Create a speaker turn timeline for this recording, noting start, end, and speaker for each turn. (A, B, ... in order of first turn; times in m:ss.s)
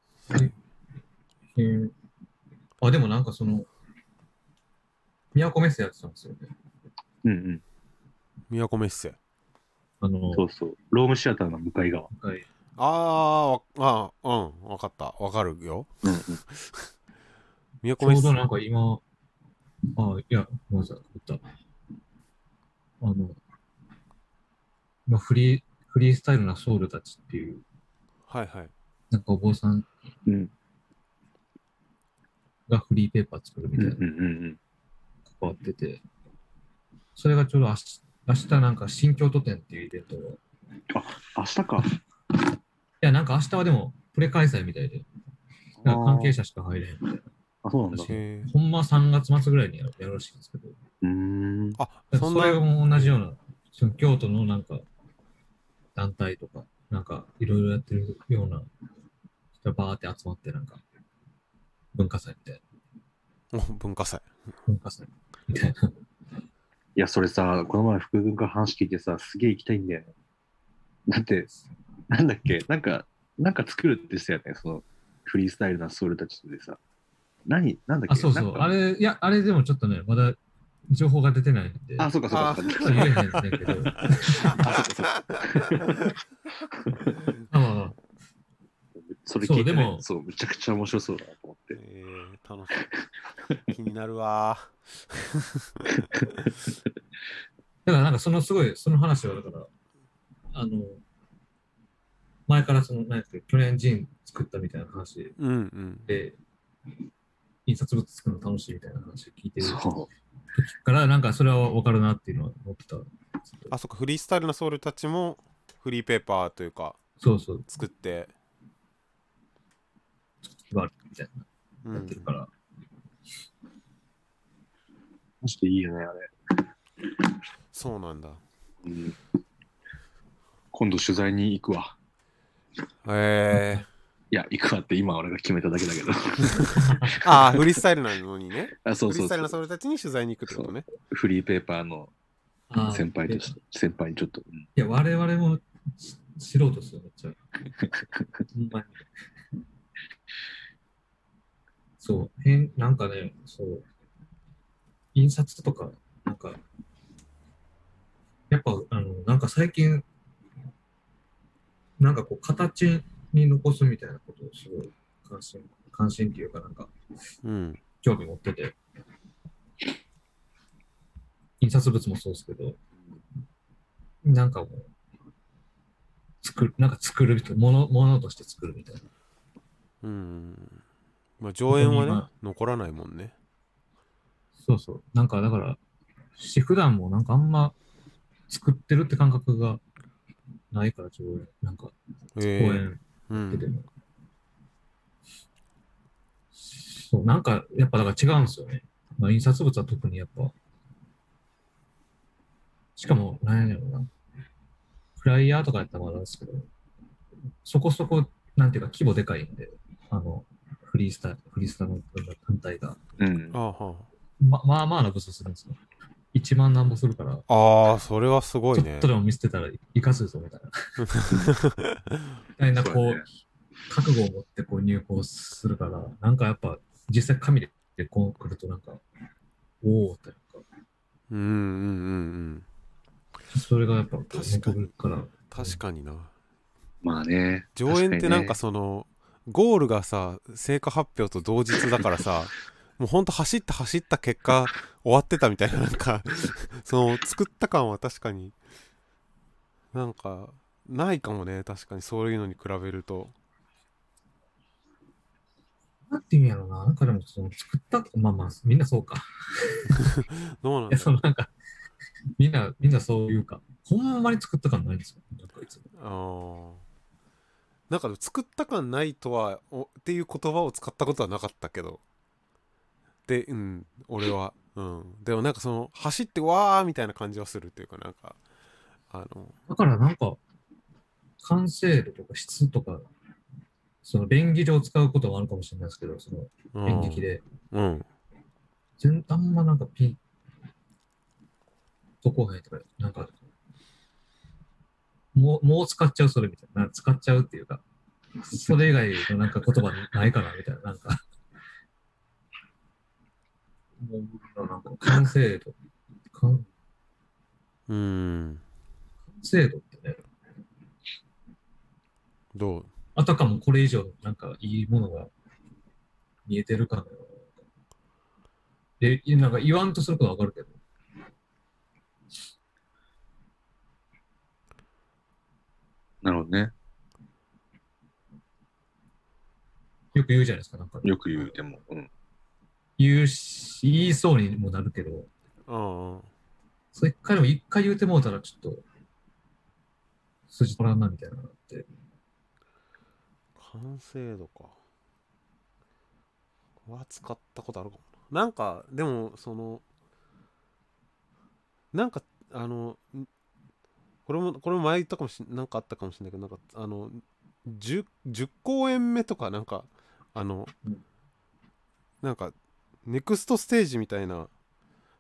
0:00.3-0:00.5 A
0:01.6-0:01.9 A
0:02.8-0:03.7 A
0:05.3-0:06.5 A
0:07.2-0:07.6 B
0:08.5-0:09.2 C
0:10.0-0:10.4 A
0:10.3-0:12.1 B
0:12.1-0:12.5 A
0:12.8-0:15.9 C
0:16.0-0:16.4 B
0:16.5-0:16.9 C
0:17.8-0:18.4 C
0:18.0-0:19.0 A
0:20.0-0:21.4 A
0:23.0-0:23.4 A
0:25.1-0:27.6 A
0:28.3-0:28.7 C
0:29.1-0:29.9 A
0:30.3-0:30.5 B
0:32.7-0:34.0 A
0:33.8-0:34.6 B
0:35.3-0:36.0 A
0:37.2-0:40.4 A
0:40.9-0:41.9 B
0:43.0-0:45.0 A
0:45.8-0:46.4 B
0:45.8-0:47.2 A
0:47.6-0:48.2 B
0:47.9-0:50.8 A
0:48.1-0:48.5 C
0:51.0-0:51.8 B
0:51.8-0:53.2 C
0:52.1-0:54.8 A
0:56.0-0:58.7 A
0:59.6-1:00.8 A
1:01.9-1:02.6 A
1:03.5-1:04.2 C
1:04.7-1:06.0 A
1:07.0-1:10.1 B
1:11.1-1:11.5 B
1:12.1-1:16.8 B
1:17.5-1:18.7 B
1:18.1-1:20.4 A
1:20.9-1:22.1 A
1:22.0-1:23.1 B
1:22.3-1:23.4 C
1:22.8-1:24.7 A
1:24.4-1:27.0 B
1:27.5-1:28.0 A
1:29.0-1:31.8 B
1:29.4-1:30.0 A
1:31.8-1:32.8 C
1:32.9-1:33.6 B
1:33.7-1:36.4 C
1:35.9-1:36.7 B
1:37.8-1:39.7 A
1:40.5-1:41.0 A
1:42.5-1:45.4 A
1:45.4-1:46.1 C
1:46.1-1:46.4 A
1:47.7-1:49.8 A
1:49.6-1:50.1 B
1:50.5-1:53.7 A
1:53.7-1:57.0 C
1:57.2-1:57.7 A
1:57.7-1:58.3 C
2:00.6-2:02.5 A
2:01.8-2:02.3 C
2:05.4-2:06.3 B
2:07.7-2:08.4 C
2:08.8-2:09.2 B
2:10.7-2:12.0 B
2:13.0-2:13.9 C
2:14.3-2:17.7 B
2:16.8-2:17.1 A
2:17.2-2:20.8 C
2:18.8-2:19.5 B
2:20.5-2:22.1 B
2:22.7-2:23.6 A
2:22.9-2:24.7 B
2:24.8-2:27.4 A
2:27.8-2:28.4 B
2:28.5-2:29.1 A
2:32.0-2:33.9 A
2:35.1-2:36.6 A
2:38.5-2:40.1 A
2:42.0-2:46.9 A
2:47.4-2:47.8 C
2:48.0-2:48.8 A
2:51.6-2:52.8 A
2:54.2-2:54.9 A
2:56.4-2:59.1 A
3:00.0-3:00.8 C
3:01.4-3:03.3 C
3:01.7-3:02.3 A
3:04.6-3:05.8 A
3:06.4-3:07.8 A
3:08.5-3:09.8 A
3:10.7-3:13.9 A
3:12.4-3:13.7 C
3:16.6-3:20.5 A
3:23.0-3:24.1 A
3:25.2-3:26.7 A
3:27.6-3:33.0 A
3:33.2-3:33.6 B
3:33.5-3:34.1 C
3:34.4-3:35.8 A
3:36.3-3:37.4 A
3:37.5-3:39.1 C
3:38.7-3:40.8 A
3:41.0-3:42.3 C
3:42.6-3:43.2 A
3:42.7-3:43.3 B
3:43.9-3:49.0 A
3:49.8-3:50.6 A
3:51.3-3:52.6 C
3:53.5-3:55.8 A
3:54.3-3:56.3 C
3:57.0-3:58.6 B
3:57.8-4:08.5 C
4:09.9-4:13.3 C
4:16.1-4:20.1 A
4:20.0-4:21.1 C
4:20.9-4:21.5 A
4:22.4-4:25.8 A
4:26.0-4:26.8 C
4:27.9-4:32.0 C
4:33.3-4:38.4 C
4:39.1-4:39.6 C
4:39.7-4:40.4 A
4:41.4-4:43.0 A
4:44.0-4:47.4 A
4:46.7-4:48.1 C
4:49.0-4:50.2 A
4:52.2-4:53.4 A
4:55.3-4:57.8 A
4:58.4-5:01.2 A
5:04.0-5:05.8 A
5:06.3-5:06.7 A
5:07.9-5:08.6 C
5:09.3-5:10.2 A
5:12.5-5:12.9 C
5:13.2-5:15.3 A
5:16.4-5:17.6 A
5:19.0-5:20.8 A
5:26.2-5:26.7 B
5:30.1-5:31.6 A
5:31.0-5:32.1 B
5:33.0-5:35.3 A
5:35.7-5:36.3 C
5:36.9-5:38.8 A
5:40.5-5:41.9 A
5:43.6-5:44.8 C
5:46.8-5:49.8 C
5:51.9-5:53.3 C
5:54.3-6:00.7 C
6:02.2-6:02.5 C
6:03.0-6:04.5 C